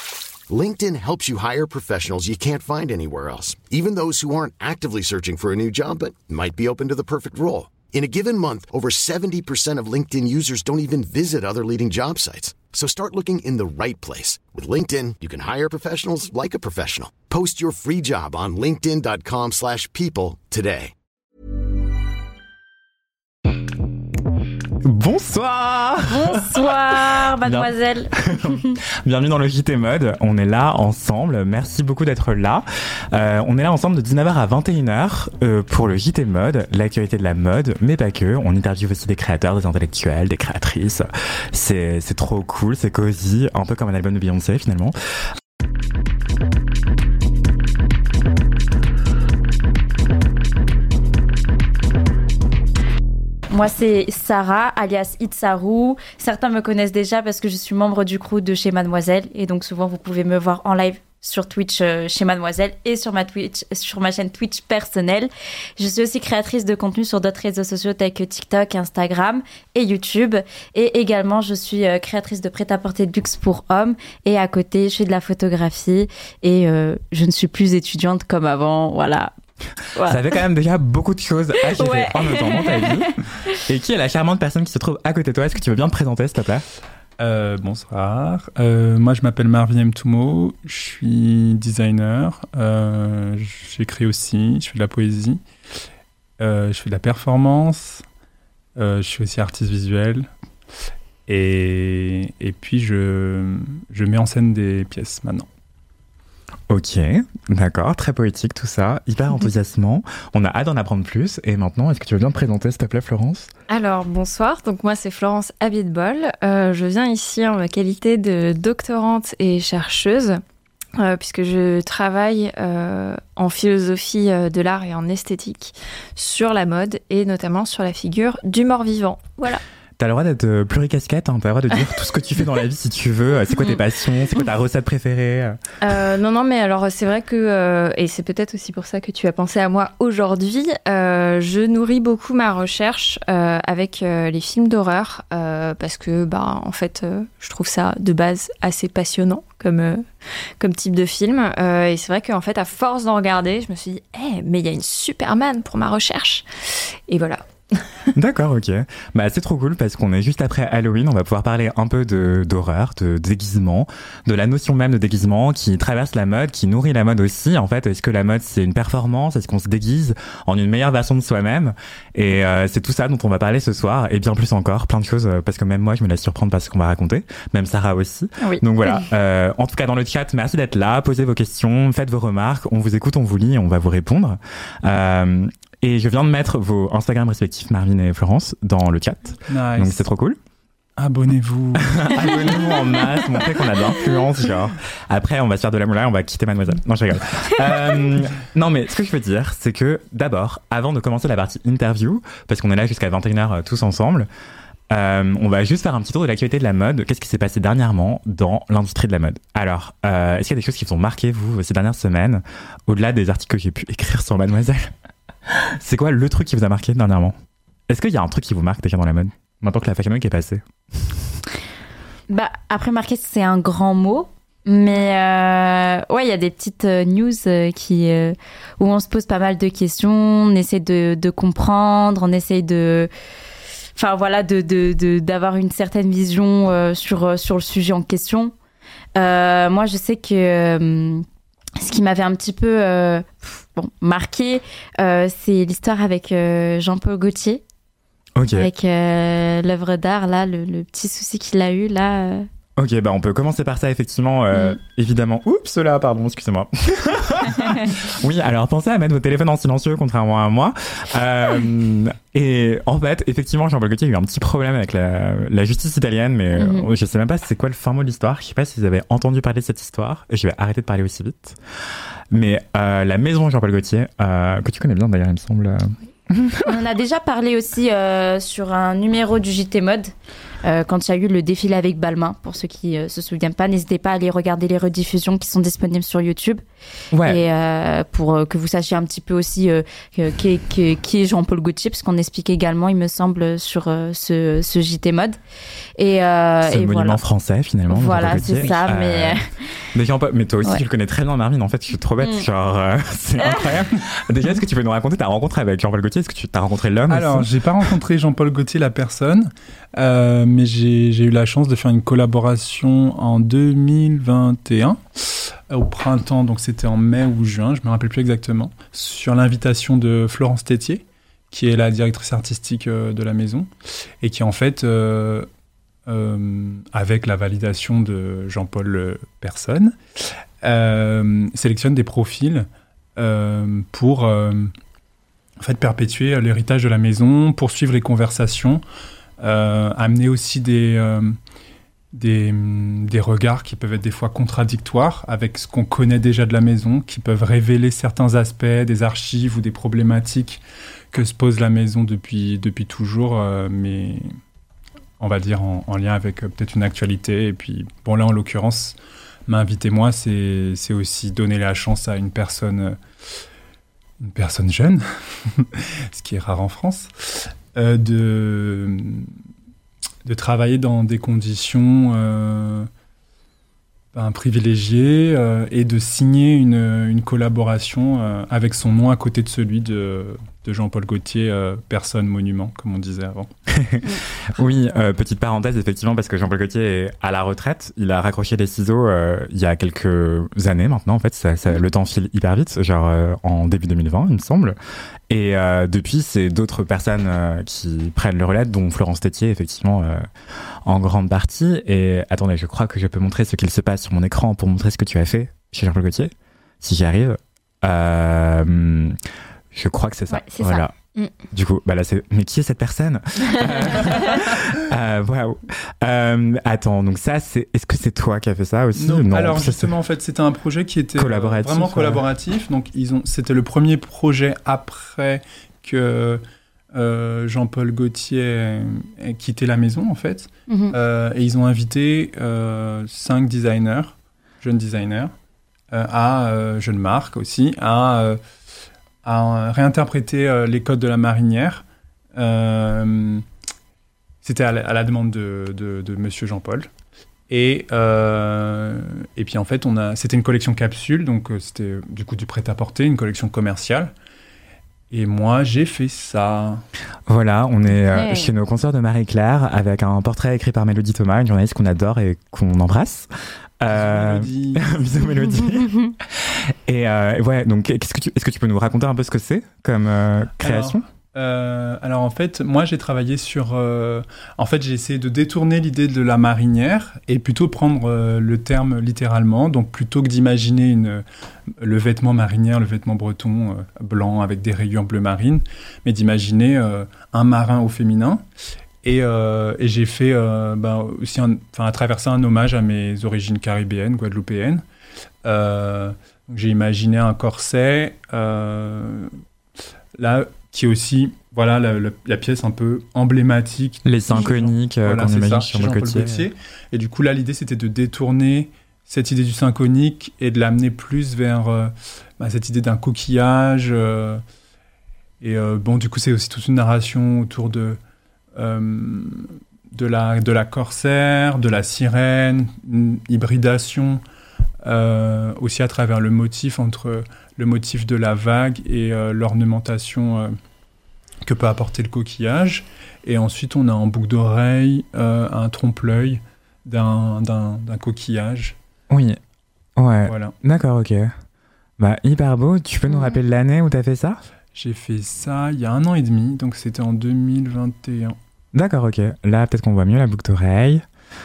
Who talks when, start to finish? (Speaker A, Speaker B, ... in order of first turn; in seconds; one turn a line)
Speaker A: 0.5-20.9
Speaker B: 24.8-26.7
Speaker C: 26.1-28.8
Speaker B: 27.4-45.0
Speaker C: 53.5-79.3
Speaker C: 79.9-80.2
Speaker B: 80.1-86.7
Speaker C: 81.7-83.6
Speaker D: 87.2-95.4
Speaker D: 96.4-98.0
Speaker D: 98.8-100.3
Speaker D: 101.3-105.5
Speaker B: 106.7-113.5
Speaker E: 113.7-120.4
Speaker E: 121.0-129.6
Speaker B: 130.0-135.6
Speaker E: 135.8-150.1
Speaker E: 150.6-156.5
Speaker E: 157.1-158.1
Speaker B: 158.2-190.4
Speaker D: 189.5-190.0
Speaker D: 191.0-192.7
Speaker B: 191.8-204.3
Speaker B: 204.9-214.9
Speaker B: 215.7-217.3
Speaker B: 217.9-221.2
Speaker C: 222.3-233.1
Speaker C: 234.0-238.5
Speaker C: 239.2-241.2
Speaker C: 241.8-247.6
Speaker B: 248.4-248.7
Speaker C: 248.6-252.5
Speaker B: 252.8-271.6
Speaker C: 266.6-266.9
Speaker B: 272.3-275.9
Speaker C: 276.7-280.1
Speaker C: 280.6-286.6
Speaker B: 287.1-287.4
Speaker C: 287.2-295.4
Speaker C: 296.0-297.2
Speaker B: 296.6-299.4
Speaker C: 297.9-299.4
Speaker B: 299.9-307.5
Speaker D: 307.1-325.5
Speaker D: 326.1-330.0
Speaker D: 330.6-334.7
Speaker D: 335.6-338.8
Speaker D: 339.4-341.4
Speaker D: 342.1-354.3
Speaker D: 355.2-359.0
Speaker D: 359.5-363.0
Speaker D: 364.2-369.3
Speaker D: 370.2-372.9
Speaker D: 374.1-383.5
Speaker B: 383.7-394.8
Speaker B: 395.3-400.3
Speaker B: 400.9-409.2
Speaker B: 409.7-410.9
Speaker C: 410.3-411.3
Speaker B: 411.5-419.9
Speaker D: 419.0-426.4
Speaker B: 421.2-422.2
Speaker D: 426.9-435.3
Speaker C: 430.7-430.9
Speaker D: 435.9-438.4
Speaker D: 439.2-441.8
Speaker D: 442.4-443.4
Speaker D: 444.4-446.9
Speaker D: 447.5-454.1
Speaker D: 455.1-456.8
Speaker B: 457.3-471.0
Speaker D: 463.9-464.9
Speaker C: 465.4-466.1
Speaker D: 470.6-481.2
Speaker D: 481.8-488.4
Speaker D: 489.0-494.8
Speaker D: 495.4-499.3
Speaker D: 500.2-514.4
Speaker B: 504.1-506.5
Speaker D: 515.4-518.0
Speaker D: 518.6-524.2
Speaker D: 524.8-530.5
Speaker D: 531.4-538.8
Speaker B: 539.1-539.4
Speaker B: 540.0-541.3
Speaker D: 540.3-540.5
Speaker B: 542.0-544.4
Speaker D: 544.8-548.4
Speaker B: 548.7-551.0